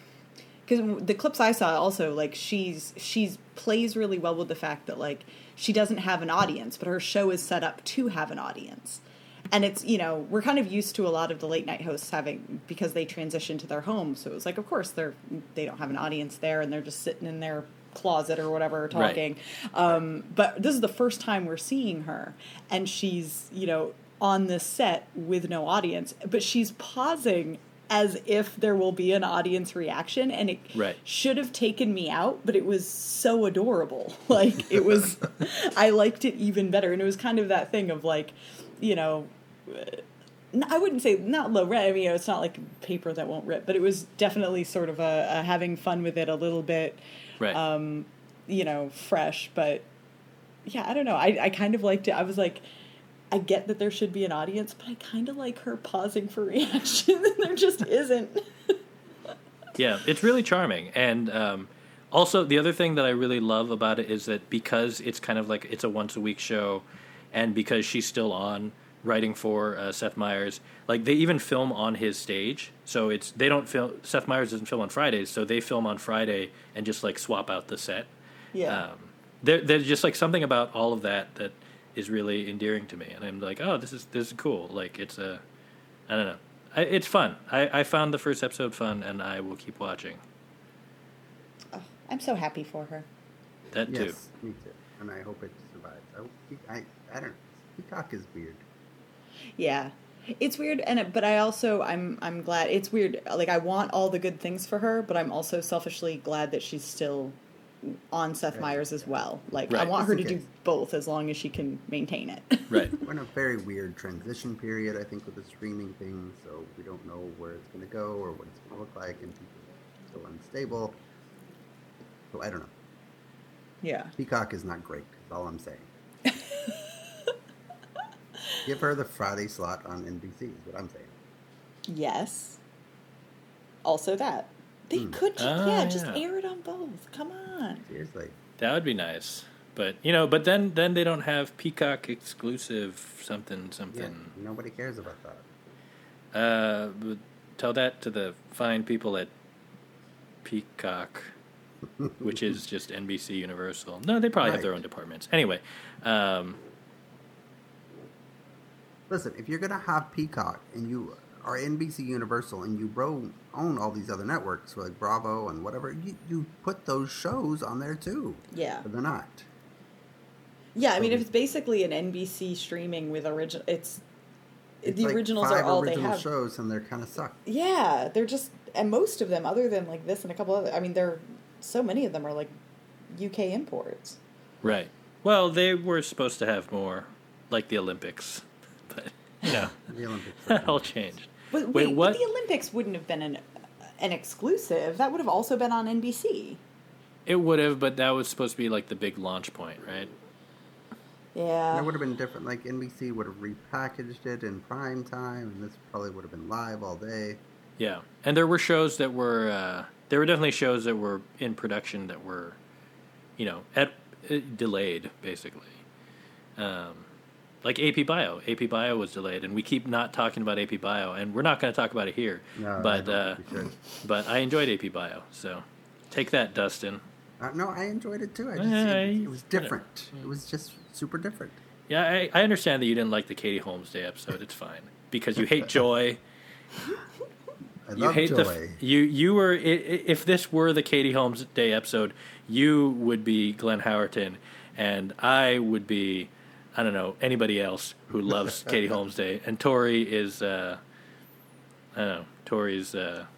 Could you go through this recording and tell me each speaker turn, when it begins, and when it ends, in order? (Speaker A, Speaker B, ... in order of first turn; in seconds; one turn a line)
Speaker A: 0.7-49.9
Speaker B: 18.9-19.2
Speaker A: 50.7-52.6
Speaker A: 53.3-58.8
Speaker B: 59.8-78.1
Speaker A: 78.5-78.8
Speaker B: 78.7-85.4
Speaker B: 86.1-90.2
Speaker A: 91.7-93.1
Speaker B: 93.7-94.2
Speaker C: 93.9-98.6
Speaker A: 99.6-113.0
Speaker C: 108.5-109.2
Speaker C: 109.9-110.4
Speaker B: 112.7-113.0
Speaker C: 113.0-121.0
Speaker C: 122.3-122.7
Speaker A: 123.8-124.1
Speaker C: 124.2-125.9
Speaker A: 126.3-126.8
Speaker C: 128.6-131.2
Speaker A: 131.9-132.6
Speaker A: 133.8-137.8
Speaker C: 134.9-135.2
Speaker B: 135.4-136.2
Speaker C: 137.8-138.4
Speaker B: 138.6-144.3
Speaker C: 143.9-145.5
Speaker B: 146.3-149.3
Speaker B: 150.4-151.3
Speaker B: 152.2-156.6
Speaker C: 154.4-154.8
Speaker C: 159.1-169.5
Speaker A: 168.5-168.8
Speaker A: 170.8-174.0
Speaker C: 171.0-171.3
Speaker A: 174.8-176.3
Speaker C: 174.8-177.4
Speaker A: 177.5-182.5
Speaker A: 183.1-184.2
Speaker B: 184.6-189.8
Speaker C: 189.8-191.0
Speaker B: 190.5-192.2
Speaker A: 191.5-193.4
Speaker A: 194.0-196.6
Speaker B: 197.3-200.1
Speaker A: 201.3-201.9
Speaker C: 201.7-207.4
Speaker B: 207.8-212.6
Speaker B: 213.4-215.8
Speaker B: 216.6-217.1
Speaker B: 217.6-227.0
Speaker C: 222.6-223.8
Speaker C: 227.4-231.6
Speaker B: 228.6-229.7
Speaker B: 231.9-236.2
Speaker C: 237.9-238.8
Speaker B: 238.0-250.8
Speaker B: 251.9-253.3